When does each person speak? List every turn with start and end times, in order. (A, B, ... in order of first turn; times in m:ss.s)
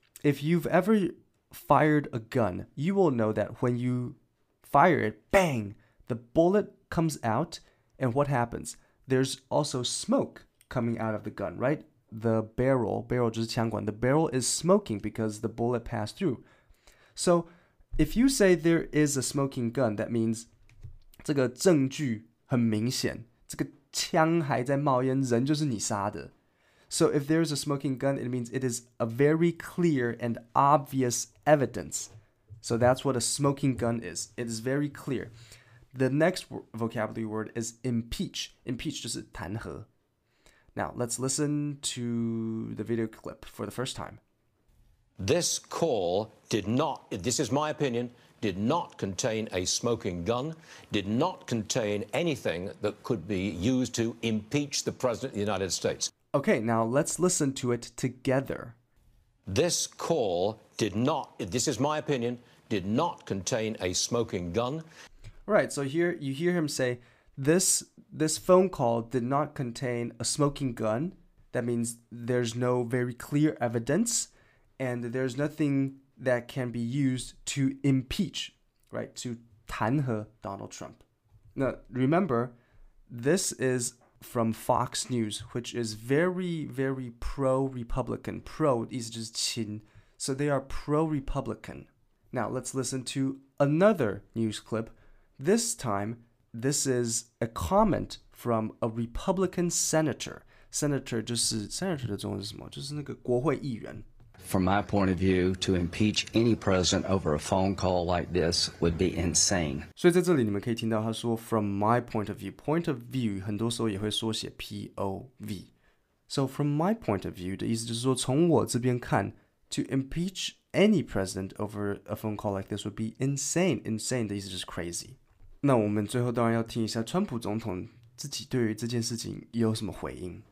0:00.2-0:16.4 A
0:17.1-0:20.5 A
0:21.2-0:26.3 A
0:26.9-0:35.3 A
0:35.9-0:39.9 A
0:40.7-0:44.2 A
0:45.2-0:56.1 B
0:56.3-0:58.8 A
0:59.5-1:04.8 B
1:05.5-1:21.0 A
1:21.6-1:22.5 A
1:23.1-1:44.0 A
1:44.4-1:49.8 C
1:50.0-1:55.7 A
1:56.3-2:10.4 A